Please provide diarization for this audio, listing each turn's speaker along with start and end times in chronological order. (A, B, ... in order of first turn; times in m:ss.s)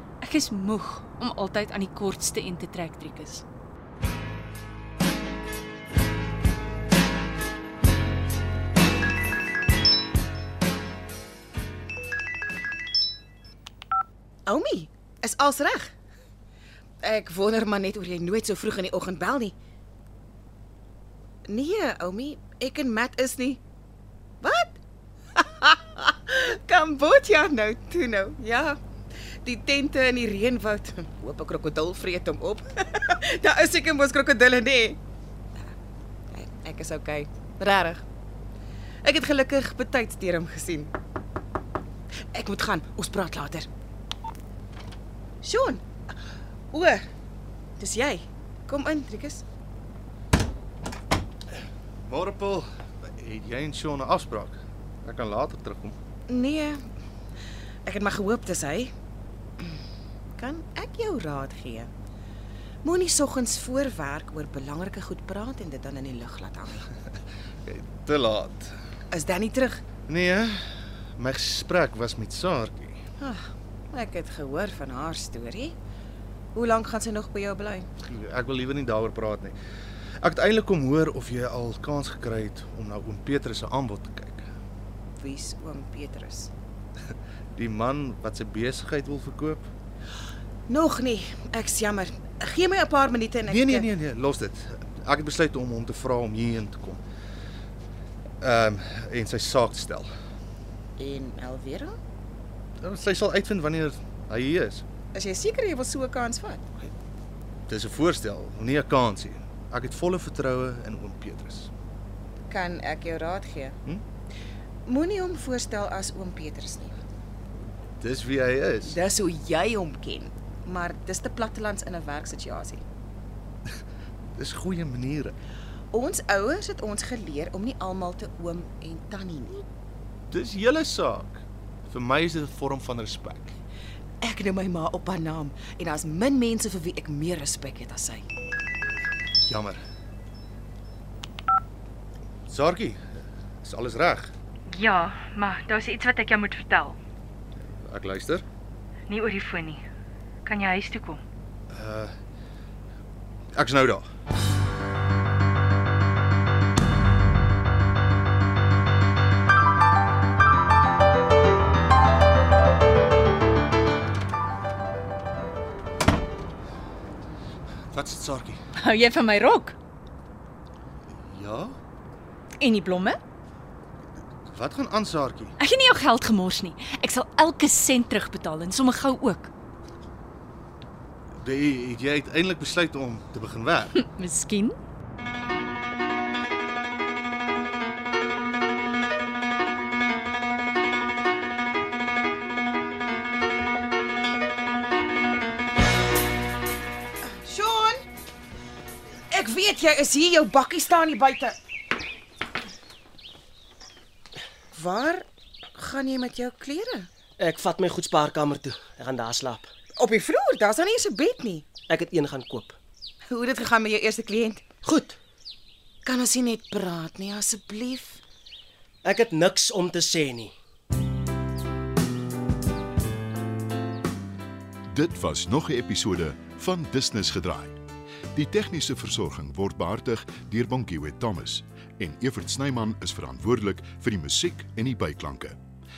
0:00.2-0:03.4 A
0:14.5-0:15.9 B
0:17.0-0:19.5 B
0:21.5-0:23.6 B
0:24.4-0:24.8 B
0:25.4-0:28.8 B
0:29.4-0:35.0 B
0:36.3-0:38.0 B
0:39.0-0:40.9 B
0:42.3-0:43.7 B
0:45.4-0:45.8 B
0:46.7-0:47.0 B
0:47.8-0:49.4 B
0:52.0-0:56.0 C
0:56.3-0:56.8 B
0:57.8-0:58.9 B
1:00.4-1:01.9 B
1:02.8-1:06.9 B
1:07.6-1:08.8 C
1:09.1-1:09.8 B
1:10.1-1:13.0 C
1:13.2-1:15.7 B
1:16.5-1:17.9 B
1:18.0-1:19.6 C
1:20.2-1:24.5 C
1:25.2-1:26.5 B
1:27.6-1:29.7 C
1:30.7-1:33.9 B
1:33.4-1:37.0 C
1:38.4-1:40.1 C
1:41.0-1:42.0 B
1:42.8-1:44.8 C
1:45.1-1:46.9 B
1:47.7-1:51.7 C
1:52.5-1:53.8 B
1:54.8-1:57.0 B
1:58.0-1:59.0 C
1:58.8-2:02.8 B
2:04.3-2:05.4 C
2:05.9-2:09.6 B
2:10.3-2:13.6 C
2:14.2-2:18.2 B
2:19.4-2:19.8 C
2:22.5-2:23.0 C
2:23.6-2:24.3 C
2:24.7-2:27.0 A
2:27.6-2:28.4 C
2:29.1-2:29.8 A
2:30.4-2:31.2 A
2:31.7-2:32.1 C
2:33.5-2:34.0 C
2:47.9-2:48.6 C
2:48.8-2:49.8 A
2:51.2-2:51.8 C
2:52.6-2:53.2 A
2:54.5-2:55.5 C
2:55.6-2:59.5 A
3:01.4-3:04.0 C
3:03.9-3:04.8 A
3:17.4-3:18.0 B
3:19.3-3:21.6 B
3:24.7-3:25.2 B
3:25.7-3:27.1 B
3:27.4-3:29.7 D
3:30.0-3:31.7 B
3:31.9-3:32.8 D
3:33.3-3:34.6 B
3:34.8-3:35.2 D
3:36.0-3:38.2 B
3:39.0-3:40.5 D
3:44.9-3:47.8 E
3:48.3-3:55.6 E